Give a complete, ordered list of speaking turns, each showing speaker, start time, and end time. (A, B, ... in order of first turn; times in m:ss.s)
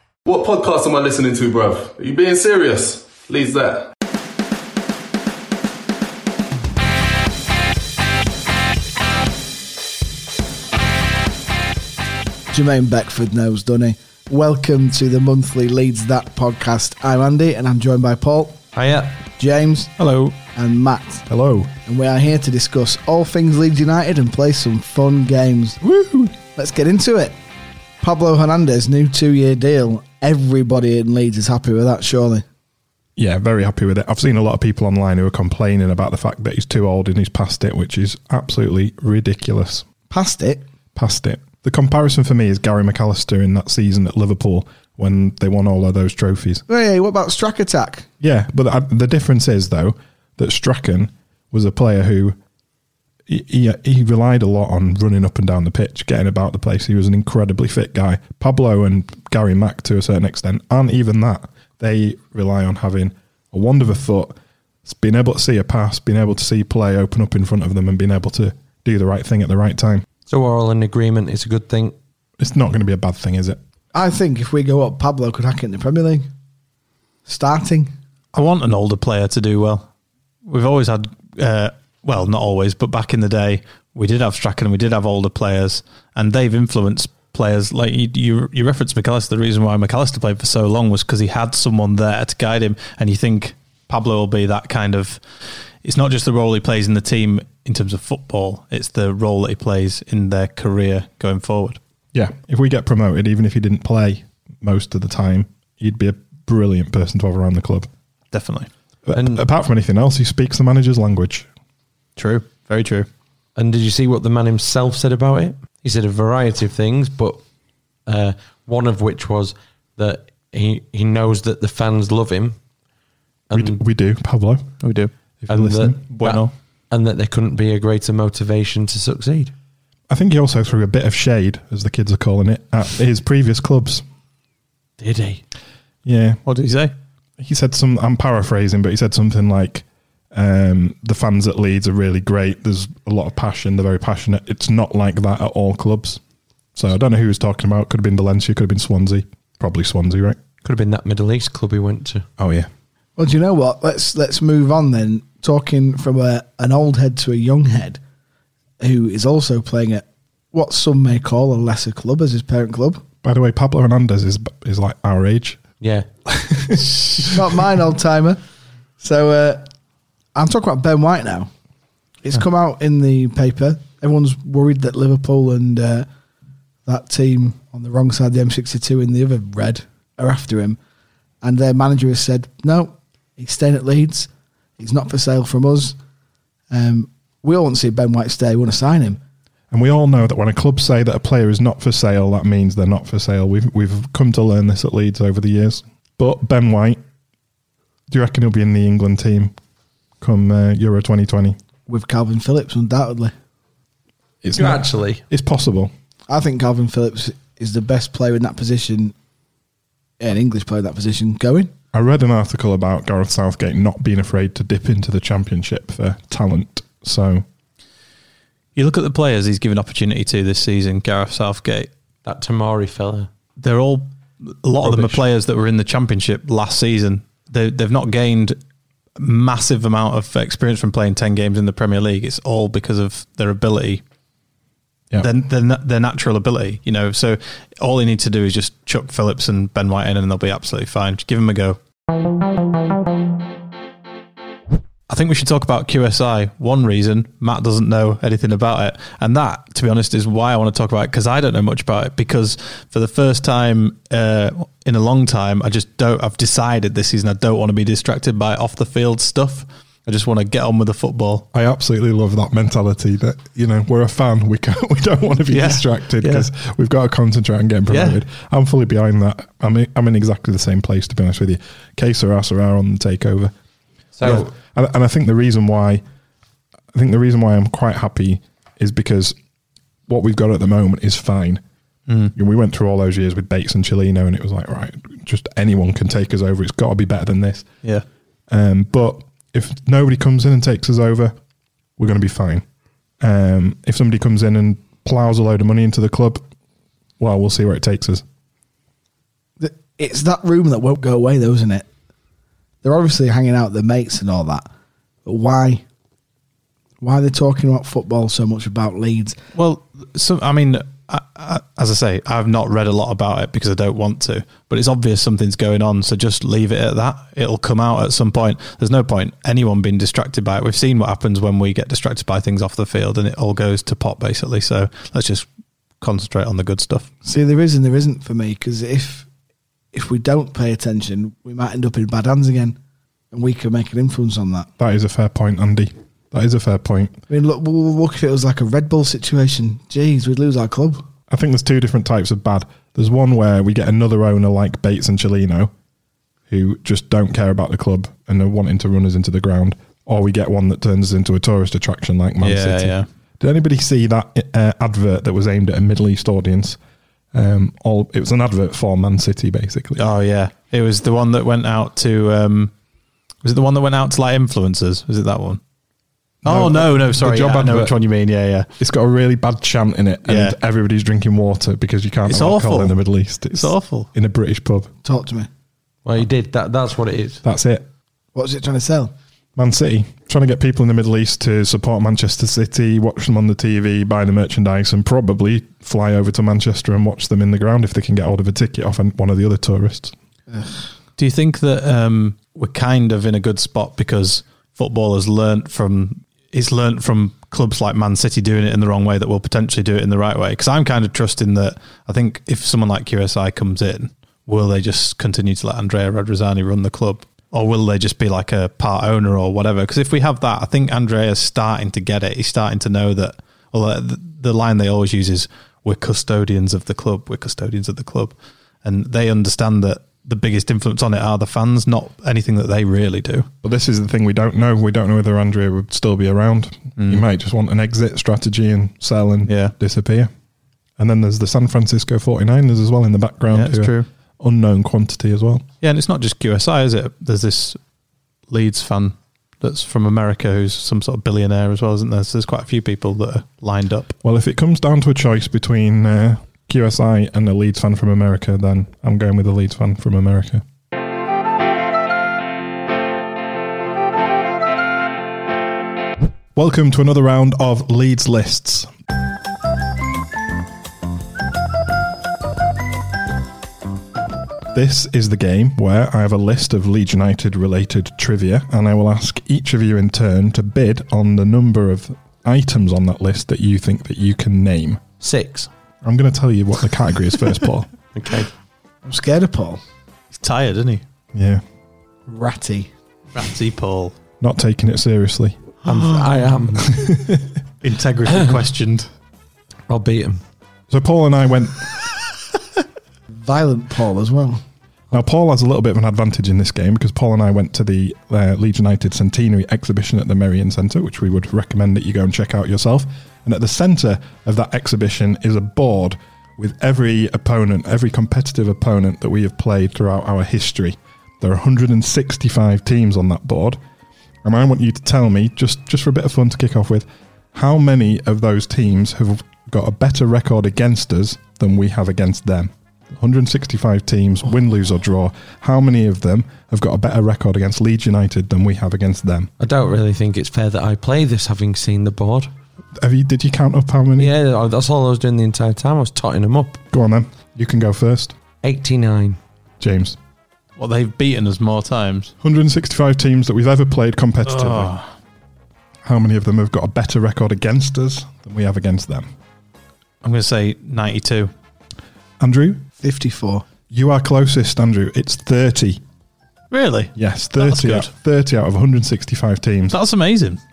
0:00.2-0:03.9 A
0:12.5-0:18.6 B
0:18.8-0:19.1 C
0:19.4-0:19.9 B
0:20.0-0:20.4 C
0:20.5-0:21.2 B
0:21.3-0:21.7 D
0:21.8-0:25.8 B
0:25.8-0:26.4 D
0:26.5-0:27.4 B
0:28.0-0:32.4 B
0:33.2-0:39.8 D
0:40.1-0:40.6 B
0:40.9-0:46.6 D
0:46.7-0:48.1 B
0:48.2-0:52.4 D
0:53.3-1:04.3 D
1:04.8-1:10.0 D
1:10.3-1:11.9 E
1:12.4-1:13.6 D
1:13.9-1:16.3 B
1:17.2-1:17.9 B
1:18.3-1:19.9 C
1:20.4-1:35.2 C
1:35.8-1:41.8 C
1:42.1-1:47.9 D
1:48.3-1:48.7 C
1:49.0-1:51.5 D
1:49.1-1:49.4 E
1:52.2-1:53.1 C
1:53.6-1:57.4 E
1:58.0-2:02.6 E
2:03.5-2:03.8 E
2:03.5-2:04.7 D
2:04.8-2:05.1 C
2:05.4-2:06.0 D
2:05.5-2:09.5 E
2:06.1-2:06.5 C
2:10.1-2:14.0 D
2:15.0-2:15.4 C
2:16.0-2:16.4 D
2:16.4-2:16.9 C
2:17.4-2:26.2 D
2:26.7-2:30.4 D
2:30.6-2:32.2 E
2:32.4-2:32.7 D
2:33.2-2:38.0 B
2:38.8-2:43.0 B
2:43.2-2:45.6 D
2:45.8-2:46.0 E
2:46.3-2:47.3 D
2:47.2-2:48.4 B
2:49.0-2:49.6 B
2:50.3-2:51.5 B
2:52.2-2:56.1 B
2:56.8-3:00.8 B
3:01.4-3:06.0 B
3:06.7-3:09.2 B
3:09.7-3:17.0 D
3:18.1-3:19.5 D
3:20.2-3:21.6 D
3:21.9-3:23.3 B
3:24.4-3:25.9 D
3:24.6-3:25.2 E
3:26.3-3:29.1 B
3:30.2-3:31.7 B
3:31.9-3:37.4 D
3:38.8-3:41.9 C
3:42.2-3:43.3 E
3:43.6-3:48.6 C
3:44.8-3:45.2 D
3:49.2-3:54.0 C
3:55.2-4:01.8 C
4:05.1-4:21.5 C
4:21.5-4:33.5 D
4:25.5-4:26.5 C
4:27.9-4:28.2 C
4:34.2-4:34.4 E
4:34.2-4:36.0 D
4:36.9-4:39.4 D
4:40.1-4:41.6 D
4:42.1-4:42.3 C
4:42.3-4:47.7 D
4:48.5-4:51.4 D
4:52.0-4:52.6 D
4:53.2-4:56.4 D
4:57.2-4:58.2 D
4:59.6-5:01.9 B
5:02.8-5:04.7 B
5:05.2-5:05.8 B
5:07.0-5:09.4 B
5:09.5-5:25.5 C
5:26.0-5:27.1 C
5:27.2-5:29.3 B
5:29.9-5:32.8 B
5:33.3-5:34.7 B
5:34.8-5:37.2 D
5:37.3-5:41.0 B
5:41.3-5:45.7 D
5:46.5-5:56.8 D
5:52.4-5:53.1 C
5:57.3-6:00.0 D
6:00.0-6:02.7 C
6:03.4-6:05.6 C
6:06.4-6:08.7 C
6:06.4-6:08.0 D
6:08.8-6:14.9 D
6:10.3-6:10.6 C
6:12.2-6:13.0 C
6:13.5-6:14.1 C
6:15.0-6:15.5 B
6:16.0-6:17.4 E
6:17.4-6:17.9 D
6:18.3-6:19.1 B
6:19.6-6:30.1 D
6:30.5-6:30.9 B
6:31.2-7:03.5 C
7:03.6-7:10.3 D
7:07.0-7:07.2 C
7:09.5-7:09.7 C
7:11.0-7:15.7 D
7:13.5-7:14.1 C
7:15.8-7:17.8 C
7:18.5-7:24.1 C
7:24.2-7:30.6 D
7:36.5-7:38.9 D
7:44.7-7:55.0 D
7:55.2-7:55.7 E
7:56.0-7:57.9 D
7:58.1-7:58.5 E
7:59.0-7:59.8 B
8:00.3-8:01.0 C
8:01.3-8:01.6 D
8:02.3-8:02.9 B
8:03.3-8:04.1 C
8:04.4-8:05.7 D
8:05.8-8:07.0 E
8:06.8-8:07.4 D
8:07.8-8:09.1 C
8:09.9-8:10.4 E
8:10.9-8:11.9 D
8:13.4-8:14.6 B
8:15.1-8:33.8 D
8:34.4-8:49.5 D
8:49.6-8:52.5 E
8:53.0-8:54.3 D
8:54.2-8:56.8 E
8:56.9-8:58.3 D
8:58.6-8:59.4 E
8:59.8-9:00.2 D
9:00.8-9:02.3 C
9:02.4-9:04.9 D
9:04.4-9:05.1 C
9:06.0-9:09.3 D
9:10.2-9:11.5 C
9:12.4-9:12.8 D
9:13.0-9:13.6 B
9:13.9-9:16.0 D
9:16.7-9:18.1 C
9:17.2-9:20.0 D
9:19.9-9:20.6 C